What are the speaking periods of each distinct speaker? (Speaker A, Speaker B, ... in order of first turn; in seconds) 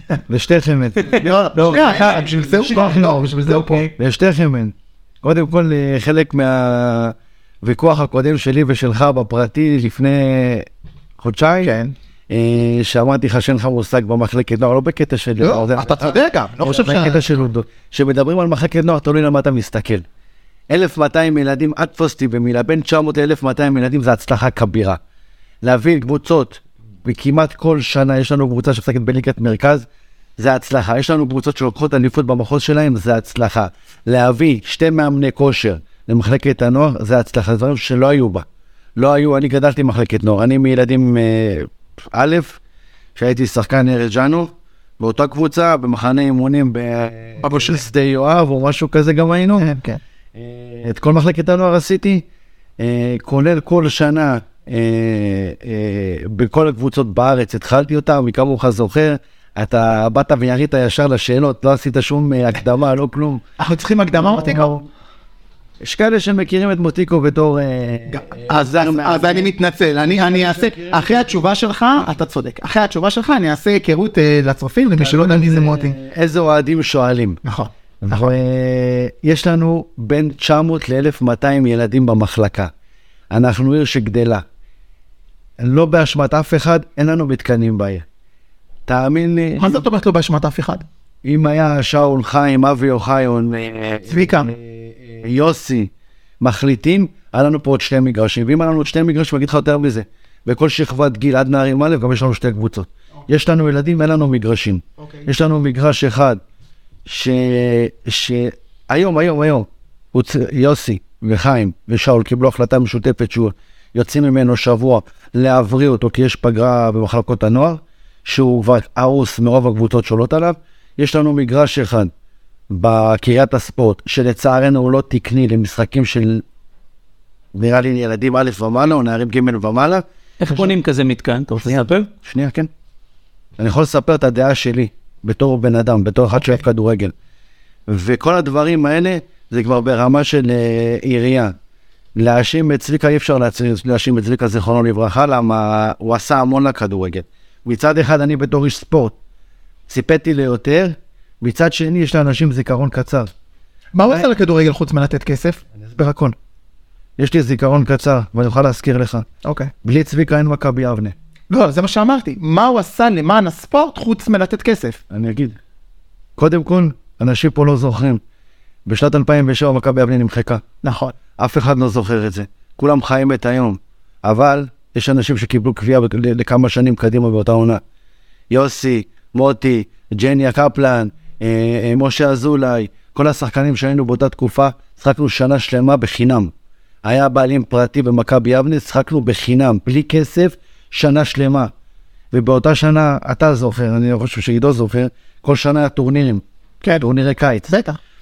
Speaker A: 0.3-1.1, 2.6-10.7, 11.2-11.7, 12.3-16.1, 16.6-20.1, 20.7-25.0, 25.6-29.9, 30.4-38.5, 39.0-42.6, 43.2-49.6, 50.4-52.2, 52.8-63.4, 64.2-64.8, 65.8-69.5, 70.2-71.2, 75.0-77.4, 78.0-82.7, 83.3-84.4, 85.6-88.0, 88.9-89.7, 91.2-106.4, 107.1-122.1, 122.7-126.4, 127.5-130.0, 132.2-132.7, 133.6-137.1, 137.9-141.5, 142.2-149.2, 149.9-153.3, 155.9-156.3, 157.2-159.3, 159.8-161.1, 165.1-165.6, 166.4-168.2, 168.9-170.6, 171.4-177.8, 178.5-186.5, 187.0-191.7, 192.3-196.4, 197.0-197.7
Speaker B: 1.1-2.3, 130.4-132.1
Speaker C: 1.1-3.9, 11.6-11.9, 15.4-17.2, 49.6-50.0, 63.6-64.8, 68.1-76.0, 77.4-78.2, 89.6-90.8, 94.1-94.5, 153.9-155.6, 159.4-159.7, 161.5-165.0, 170.8-171.2, 197.7-198.0